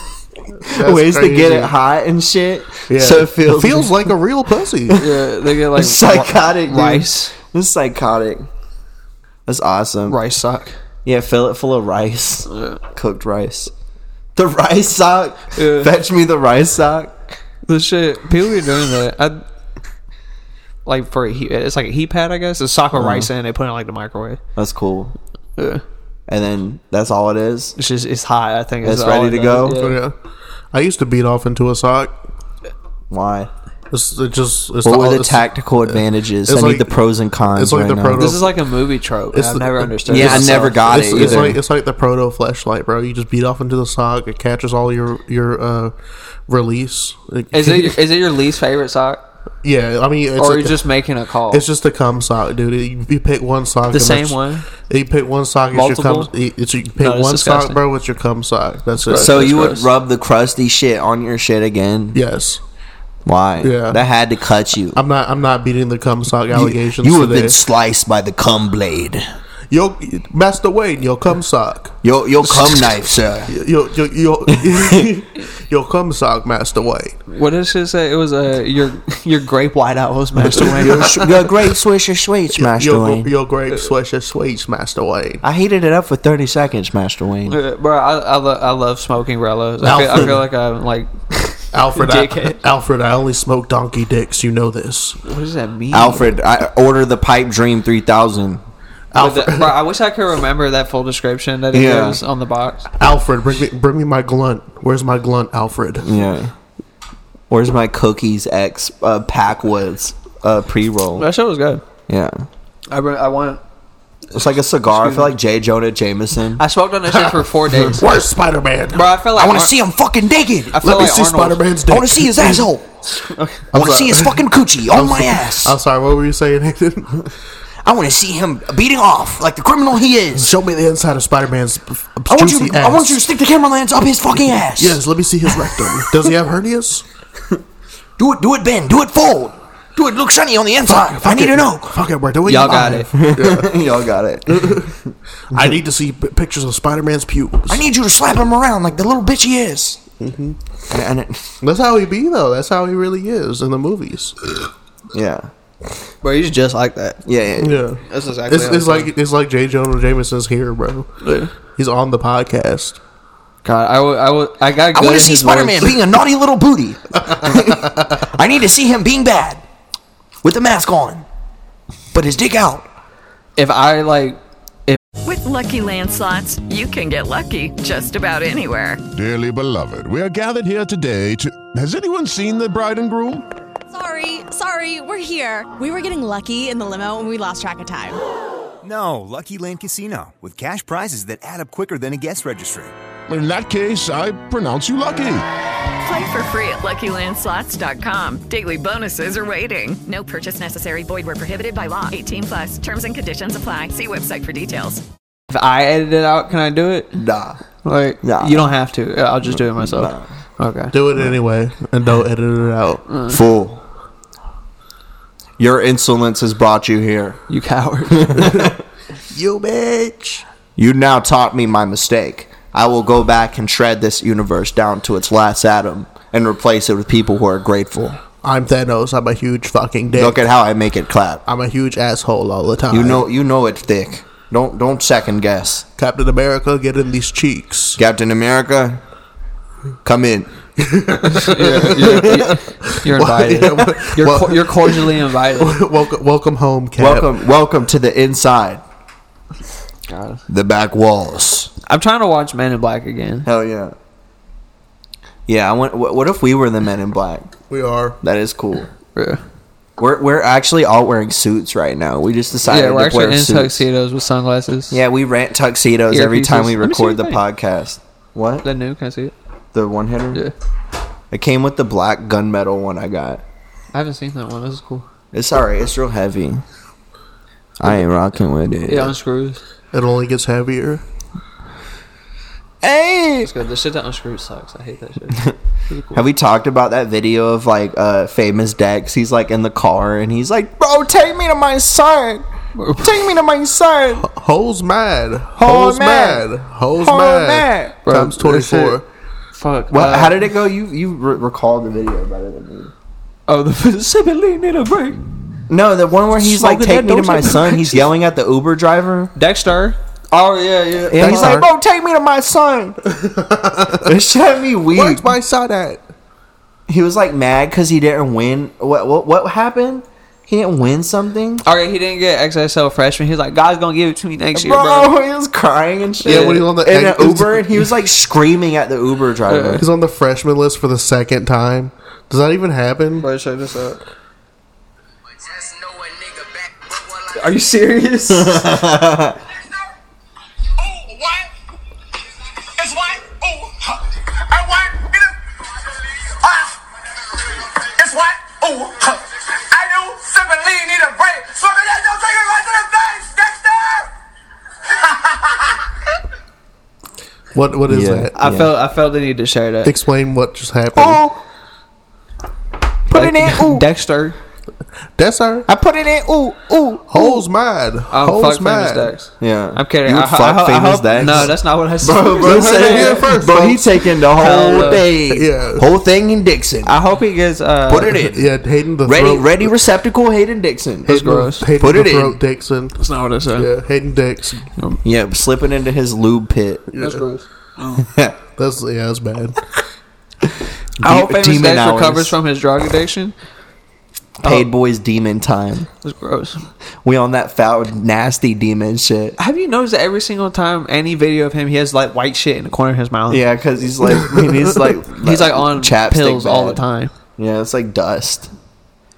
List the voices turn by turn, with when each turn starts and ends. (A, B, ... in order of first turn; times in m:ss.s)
0:00.6-0:04.1 A
0:00.6-0:01.7 B
0:02.9-0:05.0 B
0:04.9-0:05.2 A
0:04.9-0:07.3 C
0:05.7-0:08.5 A
0:09.5-0:10.2 A
0:10.1-0:10.8 C
0:11.0-0:13.7 A
0:12.5-0:12.8 C
0:14.4-0:17.4 A
0:15.6-0:15.9 C
0:17.7-0:19.4 C
0:20.8-0:24.4 C
0:22.9-0:23.3 A
0:24.6-0:25.1 A
0:25.6-0:25.8 C
0:26.3-0:27.7 A
0:27.8-0:30.0 C
0:28.8-0:29.8 A
0:29.6-0:30.2 B
0:30.7-0:32.2 B
0:33.1-0:33.5 A
0:33.9-0:37.0 B
0:34.8-0:38.3 A
0:37.5-0:38.6 B
0:38.1-0:41.5 C
0:39.3-0:45.9 B
0:40.1-0:41.6 A
0:46.5-0:48.0 B
0:47.5-0:49.2 C
0:49.6-0:50.8 B
0:50.4-0:51.6 C
0:51.5-0:59.6 B
0:53.9-0:54.7 C
0:55.7-0:56.3 C
0:57.0-0:57.8 C
0:59.0-0:59.8 C
0:59.1-1:02.2 A
1:02.1-1:02.6 B
1:03.2-1:05.0 A
1:03.6-1:04.0 B
1:04.9-1:07.6 B
1:06.5-1:09.2 A
1:09.7-1:11.9 B
1:12.0-1:13.5 A
1:13.5-1:17.2 B
1:14.5-1:15.1 A
1:17.3-1:21.1 C
1:20.6-1:23.3 A
1:20.7-1:21.4 B
1:22.5-1:25.4 B
1:25.4-1:27.6 A
1:27.5-1:31.1 C
1:29.8-1:30.4 B
1:31.7-1:35.2 B
1:32.0-1:32.6 C
1:35.2-1:36.3 C
1:35.9-1:38.6 A
1:39.1-1:39.7 B
1:39.2-1:42.9 C
1:41.7-1:42.2 A
1:43.0-1:46.1 B
1:46.0-1:46.5 A
1:47.5-1:51.3 A
1:51.2-1:51.8 C
1:52.1-1:52.5 A
1:52.9-1:53.6 C
1:54.3-1:56.6 A
1:54.9-1:55.3 C
1:56.6-1:58.0 C
1:57.1-1:59.2 B
1:58.9-1:59.7 C
1:59.3-2:00.8 A
2:00.7-2:01.6 C
2:00.8-2:02.7 B
2:01.9-2:02.9 A
2:03.1-2:03.6 C
2:03.7-2:07.2 B
2:03.7-2:05.8 A
2:07.8-2:10.5 A
2:10.4-2:13.2 B
2:12.3-2:16.2 A
2:14.8-2:17.0 B
2:18.2-2:21.9 A
2:20.8-2:23.7 B
2:22.4-2:23.1 C
2:23.1-2:25.8 A
2:24.4-2:25.0 B
2:25.5-2:27.9 B
2:27.7-2:30.0 A
2:30.2-2:30.6 B
2:30.9-2:31.6 A
2:31.6-2:34.4 B
2:35.1-2:35.5 A
2:36.2-2:37.2 C
2:37.2-2:37.8 A
2:37.6-2:41.1 B
2:38.1-2:39.1 C
2:41.2-2:41.5 C
2:41.7-2:43.0 B
2:43.6-2:45.9 C
2:44.9-2:49.6 A
2:47.2-2:48.1 B
2:50.4-2:51.2 A
2:52.1-2:52.9 A
2:53.6-2:55.0 C
2:55.2-2:59.0 D
2:59.1-3:03.4 E
3:03.9-3:08.2 F
3:08.8-3:12.9 G
3:13.3-3:15.4 E
3:16.0-3:25.0 D
3:25.5-3:27.2 C
3:27.2-3:27.6 A
3:27.8-3:30.9 C
3:28.2-3:28.7 A
3:29.5-3:30.3 A
3:30.9-3:33.0 B
3:33.1-3:33.4 C
3:33.3-3:33.8 A
3:35.6-3:37.4 A
3:37.5-3:38.5 C
3:38.1-3:38.8 A
3:38.4-3:38.7 B
3:39.3-3:40.4 B
3:40.8-3:48.2 A
3:48.4-3:50.4 B
3:50.2-3:51.4 A
3:51.4-3:53.2 B
3:52.9-3:55.8 A
3:56.0-3:58.0 B
3:58.0-3:59.0 A
4:00.0-4:00.5 A
4:00.8-4:07.3 B
4:01.2-4:05.8 C
4:01.9-4:02.5 A
4:07.0-4:08.8 A
4:10.1-4:10.4 C
4:10.5-4:11.7 A
4:11.9-4:13.5 C
4:13.4-4:13.9 A
4:15.5-4:17.5 A
4:17.7-4:18.2 B
4:18.2-4:18.9 A
4:19.1-4:19.4 C
4:20.0-4:23.8 A
4:22.6-4:25.0 C
4:24.9-4:28.6 A
4:26.1-4:27.4 C
4:28.6-4:29.3 C
4:29.7-4:30.4 A
4:31.3-4:33.4 A
4:33.9-4:35.1 C
4:35.3-4:36.6 A
4:37.8-4:39.1 A
4:38.9-4:39.6 C
4:39.9-4:41.0 B
4:42.8-4:43.5 A
4:43.4-4:46.2 C
4:46.1-4:52.4 A
4:52.8-4:53.1 C
4:53.0-4:54.3 A
4:54.2-4:59.0 B
4:55.6-4:58.0 A
4:58.0-4:59.0 C
4:59.5-5:00.4 C
4:59.9-5:02.9 A
5:03.5-5:05.3 C
5:05.7-5:09.3 A
5:06.4-5:08.0 C
5:09.3-5:11.6 C
5:11.1-5:13.0 A
5:11.2-5:11.7 B
5:13.1-5:14.2 B
5:14.0-5:15.3 A
5:14.9-5:16.0 B
5:16.9-5:21.6 A
5:21.6-5:25.1 C
5:24.5-5:29.8 A
5:26.2-5:26.6 C
5:26.2-5:27.9 B
5:29.5-5:29.8 C
5:29.8-5:33.3 B
5:33.2-5:34.0 C
5:35.4-5:37.3 H
5:37.3-5:38.7 C
5:38.3-5:39.4 A
5:40.8-5:41.5 H
5:42.8-5:54.1 H
5:54.9-5:55.8 H
5:57.5-5:58.3 B
5:57.9-5:58.7 A
5:58.4-5:59.9 C
5:59.8-6:01.2 B
6:00.9-6:01.4 A
6:03.1-6:03.8 A
6:03.1-6:04.4 C
6:05.2-6:05.7 B
6:05.7-6:07.4 A
6:07.1-6:09.1 B
6:08.1-6:13.4 C
6:09.4-6:16.9 A
6:12.4-6:14.1 B
6:14.4-6:15.0 C
6:15.2-6:15.9 B
6:16.8-6:18.3 C
6:17.9-6:18.4 A
6:18.3-6:19.7 B
6:19.0-6:21.2 A
6:21.0-6:23.0 B
6:21.1-6:21.7 C
6:21.7-6:22.4 A
6:23.0-6:23.7 C
6:23.5-6:24.7 B
6:25.0-6:26.9 A
6:26.9-6:27.2 B
6:27.0-6:28.0 C
6:28.0-6:28.4 A
6:28.6-6:29.6 B
6:31.0-6:32.4 A
6:31.0-6:33.3 C
6:34.4-6:35.9 A
6:36.0-6:36.6 C
6:37.0-6:39.4 A
6:39.4-6:43.4 C
6:43.3-6:46.8 A
6:45.2-6:47.1 C
6:47.4-6:48.5 A